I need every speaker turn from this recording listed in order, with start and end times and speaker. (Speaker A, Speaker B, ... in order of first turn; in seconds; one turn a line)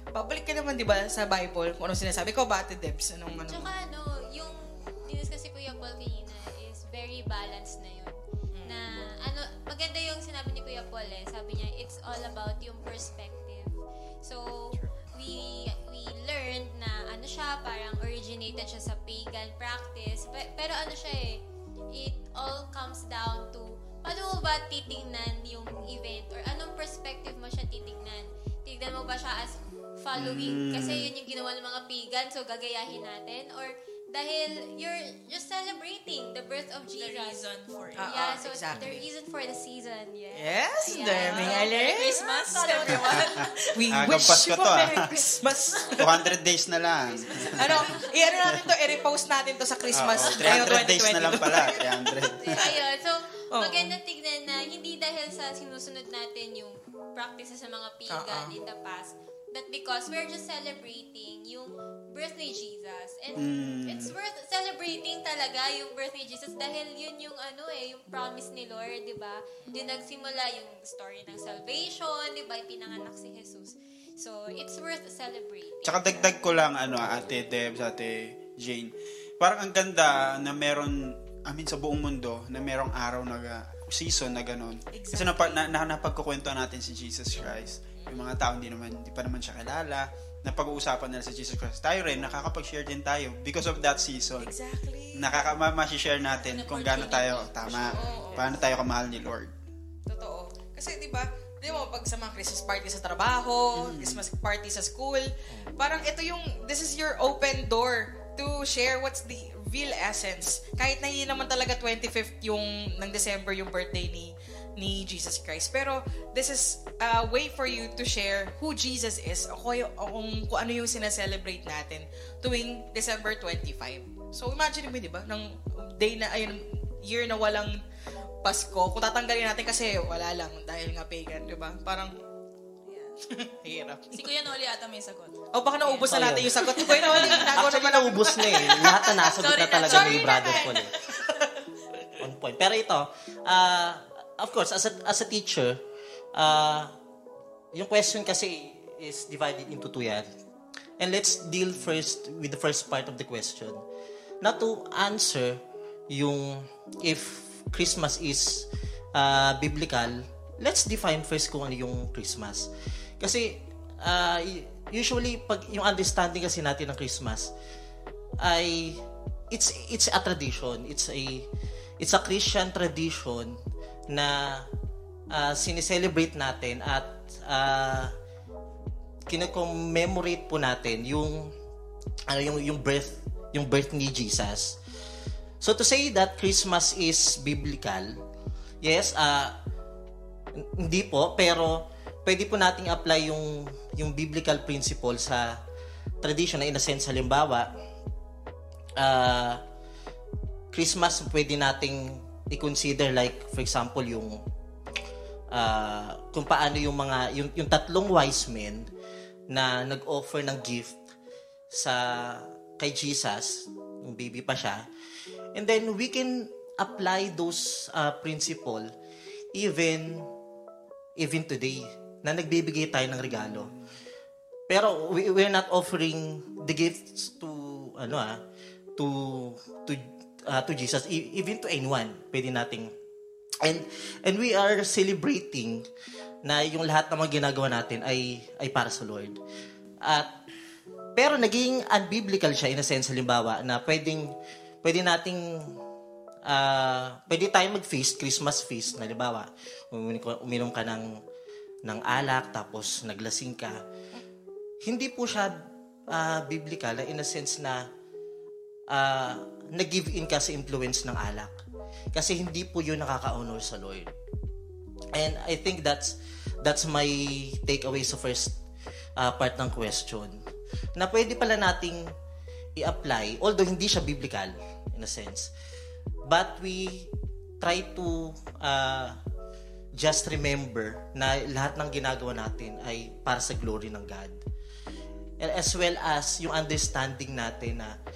Speaker A: 0.1-3.7
Speaker B: 3.5-37.4
Speaker A: 8.5-8.8
Speaker C: 30.1-31.1
Speaker D: 37.0-38.1
Speaker A: 38.0-39.0
Speaker B: 38.0-41.8
Speaker A: 40.3-46.3
Speaker D: 40.9-44.2
Speaker C: 43.9-45.1
Speaker C: 46.0-47.8
Speaker B: 47.3-48.1
Speaker A: 47.5-52.6
Speaker C: 49.9-52.7
Speaker B: 50.3-50.6
Speaker B: 52.3-76.3
Speaker A: 53.5-53.9
Speaker A: 58.1-58.5
Speaker C: 63.4-64.1
Speaker C: 75.8-94.5
Speaker A: 84.9-85.7
Speaker A: 94.4-95.3
Speaker C: 95.1-99.5
Speaker D: 96.3-98.1
Speaker A: 97.8-98.5
Speaker E: 98.2-98.6
Speaker A: 100.1-105.2
Speaker C: 103.8-104.2
Speaker E: 105.5-105.7
Speaker A: 105.8-127.8
Speaker A: 128.4-132.1
Speaker D: 132.8-133.2
Speaker A: 133.3-134.2
Speaker D: 134.1-137.7
Speaker A: 135.5-139.3
Speaker E: 136.1-140.9
Speaker D: 138.4-141.5
Speaker A: 139.8-141.4
Speaker E: 142.2-145.8
Speaker E: 146.3-146.9
Speaker E: 147.7-150.3
Speaker E: 151.0-153.8
Speaker E: 154.4-167.5
Speaker E: 168.4-171.5
Speaker E: 172.0-173.6
Speaker E: 174.1-174.7
Speaker E: 175.3-178.1
Speaker E: 179.3-181.5
Speaker E: 182.3-184.8
Speaker E: 185.6-188.2
Speaker E: 188.8-189.6
Speaker E: 190.5-195.6
Speaker E: 196.2-197.7
Speaker E: 199.0-199.6
Speaker E: 200.7-204.4
Speaker E: 205.5-208.9
Speaker E: 209.5-211.0
Speaker E: 211.7-214.9
Speaker E: 215.5-218.9
Speaker E: 219.5-220.3
Speaker E: 221.2-223.7
Speaker E: 224.7-228.4
Speaker E: 228.9-232.9
Speaker E: 233.6-235.9
Speaker E: 236.4-239.4
Speaker E: 240.0-240.3
Speaker E: 241.2-245.8
Speaker E: 246.4-251.2
Speaker E: 251.8-253.8
Speaker E: 254.8-257.9
Speaker E: 258.9-261.6
Speaker E: 262.1-264.1
Speaker E: 265.1-268.6
Speaker E: 269.2-270.4
Speaker E: 270.9-272.1
Speaker E: 272.8-275.5
Speaker E: 276.2-279.2
Speaker E: 279.9-284.4
Speaker E: 285.4-287.9